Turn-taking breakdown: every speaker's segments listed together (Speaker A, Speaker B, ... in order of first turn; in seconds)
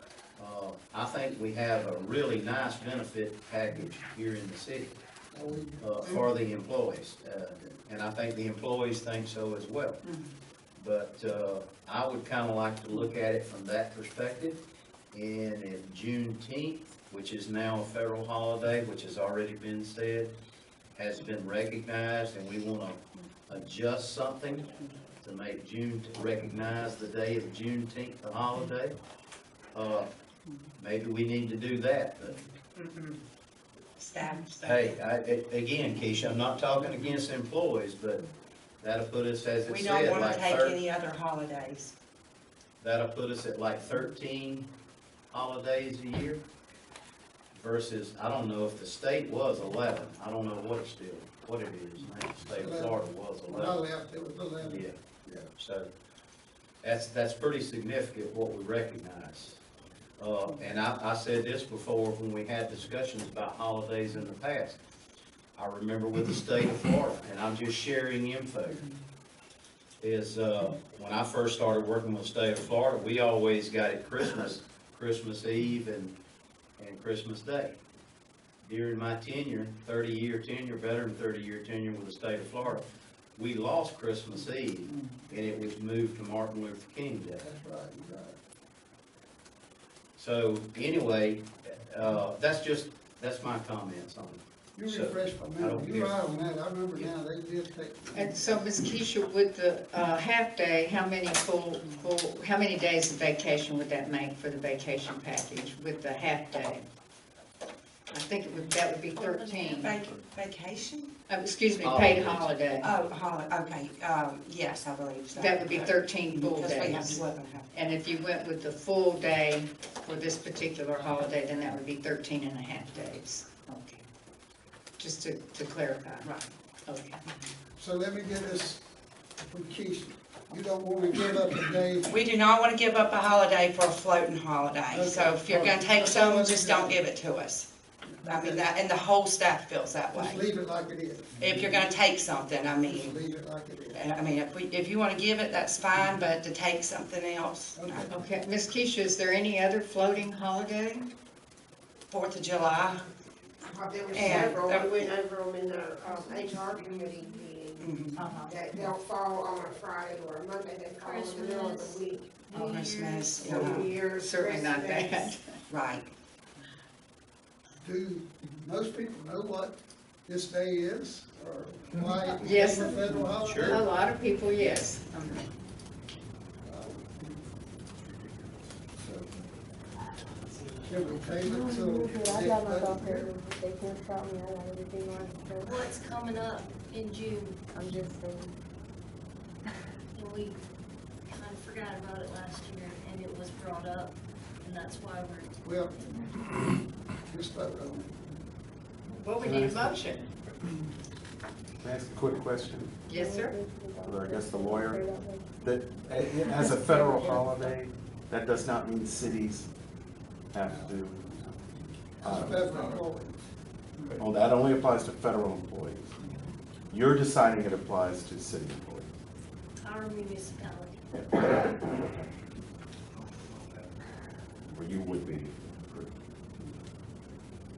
Speaker A: 0.4-5.0, 5.8-10.0, 10.8-14.6, 15.1-20.3, 20.9-28.9, 29.7-30.1, 30.8-32.4, 34.6-38.2, 38.8-40.8, 42.8-44.7, 45.3-46.5, 47.5-53.8, 54.6-55.0, 55.6-55.9, 56.8-59.6, 60.2-64.8, 65.5-68.8, 70.0-76.1, 76.8-77.8, 78.6-82.8, 83.3-87.4, 90.2-96.2, 111.8-112.5, 173.4-173.8
Speaker B: 5.3-6.2, 52.5-55.5, 87.4-88.3, 94.8-98.6, 127.8-128.8, 129.4-132.1, 134.9-137.0, 138.1-138.7, 140.1-141.8, 142.8-144.0, 147.8-148.2, 167.8-174.0, 176.6-177.1, 179.0-179.3, 180.8-183.3, 195.7-196.2, 197.3-198.1, 210.7-211.1, 212.2-213.5
Speaker C: 32.8-33.2, 98.1-106.8, 108.1-110.0, 111.3-112.9, 115.3-124.0, 125.0-126.3, 126.9-127.2, 148.1-151.1, 158.2-158.6, 162.5-162.8, 164.1-165.6, 172.4-175.5, 199.1-200.3, 203.1-203.6
Speaker D: 34.0-34.9, 39.7-41.9, 109.1-111.1, 112.8-117.7, 126.2-126.5, 132.1-137.7, 138.2-140.4, 141.4-143.2, 143.9-148.0, 152.1-153.1, 154.1-155.1, 157.8-158.3, 162.5-164.0, 165.7-166.1
Speaker E: 153.7-157.9, 158.5-162.4, 163.3-165.3
Speaker F: 161.0-163.5, 185.6-187.6, 190.1-190.6, 191.2-195.6, 219.8-221.0
Speaker G: 178.0-178.8, 180.4-181.4, 199.4-200.0, 201.8-203.0, 204.0-209.7, 210.5-211.6, 212.2-213.0, 214.2-216.1, 216.9-219.1, 221.4-221.7, 224.7-226.1
Speaker H: 181.4-185.8, 187.7-188.5, 203.1-207.8